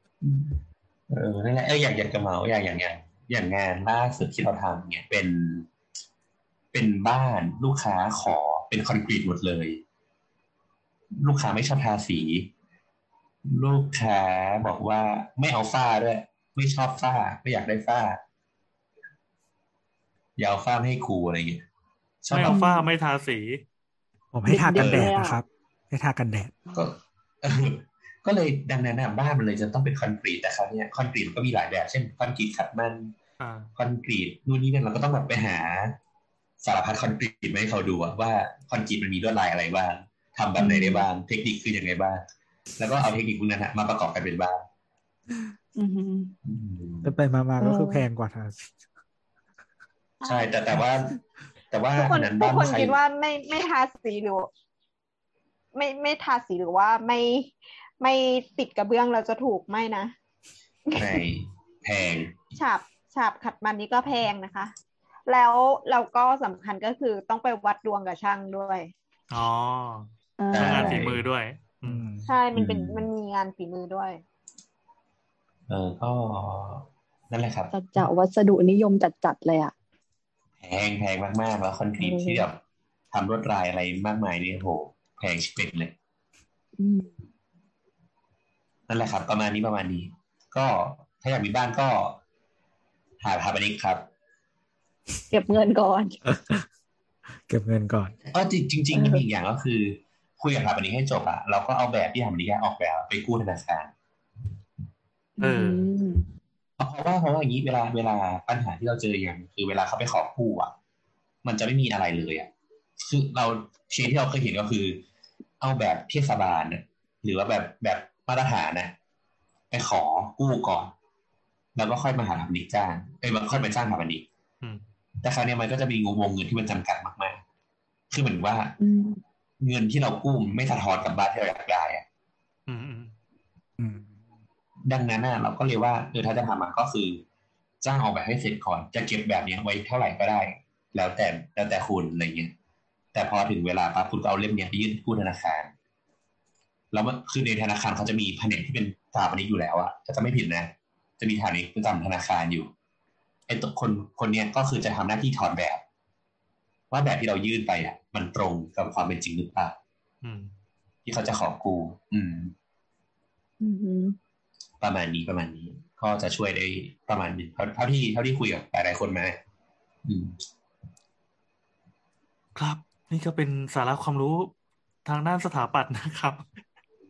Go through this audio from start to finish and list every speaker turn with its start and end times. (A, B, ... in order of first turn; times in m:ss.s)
0:00.2-0:00.6 A
0:01.1-0:05.7 A
0:06.7-0:09.8 A
0:11.2-0:12.5 A
0:13.4-0:18.2 A
0:20.4-0:21.6 A
0:22.2-0:22.6 A
0:22.3-0:23.6 B
0:22.5-0:22.9 C
0:24.3-0:26.7 D
0:24.5-0:25.4 C
0:24.7-0:25.1 A
0:26.7-0:33.1 A
0:33.4-0:33.7 B
0:33.8-0:36.0 A
0:36.6-0:42.2 A
0:40.6-0:41.1 C
0:42.8-0:44.6 A
0:45.8-0:46.3 C
0:46.4-0:47.2 A
0:47.0-0:48.7 D
0:47.6-0:48.1 C
0:50.2-0:50.5 E
0:50.2-0:51.2 A
0:51.7-0:53.0 A
0:52.0-0:54.5 E
0:55.7-1:00.1 E
1:00.9-1:01.2 E
1:00.9-1:02.4 A
1:02.6-1:04.7 E
1:05.3-1:08.9 E
1:09.3-1:12.1 B
1:10.4-1:11.1 C
1:10.5-1:11.2 A
1:11.8-1:12.3 D
1:12.3-1:14.2 E
1:12.5-1:13.1 A
1:15.7-1:17.7 A
1:17.7-1:19.7 C
1:20.6-1:22.6 A
1:22.0-1:22.4 C
1:23.1-1:25.9 A
1:26.8-1:27.1 C
1:28.9-1:32.2 A
1:33.2-1:34.1 A
1:35.3-1:36.2 C
1:36.2-1:36.6 D
1:37.5-1:38.2 D
1:38.3-1:43.9 A
1:38.9-1:39.2 C
1:45.4-1:45.9 B
1:45.4-1:46.2 C
1:46.8-1:50.7 A
1:51.4-1:55.0 A
1:55.6-1:58.9 A
1:59.7-2:00.9 A
2:01.8-2:04.2 A
2:05.2-2:07.4 A
2:08.1-2:08.8 A
2:08.8-2:09.2 C
2:09.6-2:12.0 A
2:12.7-2:13.1 B
2:13.8-2:14.1 D
2:14.9-2:17.2 A
2:17.8-2:22.5 A
2:23.1-2:25.7 A
2:26.9-2:32.7 A
2:33.5-2:35.8 A
2:36.9-2:39.8 A
2:40.2-2:40.5 B
2:41.1-2:42.5 A
2:43.6-2:44.2 C
2:44.8-2:49.4 A
2:50.0-2:50.4 A
2:52.6-2:54.5 B
2:55.0-2:56.5 B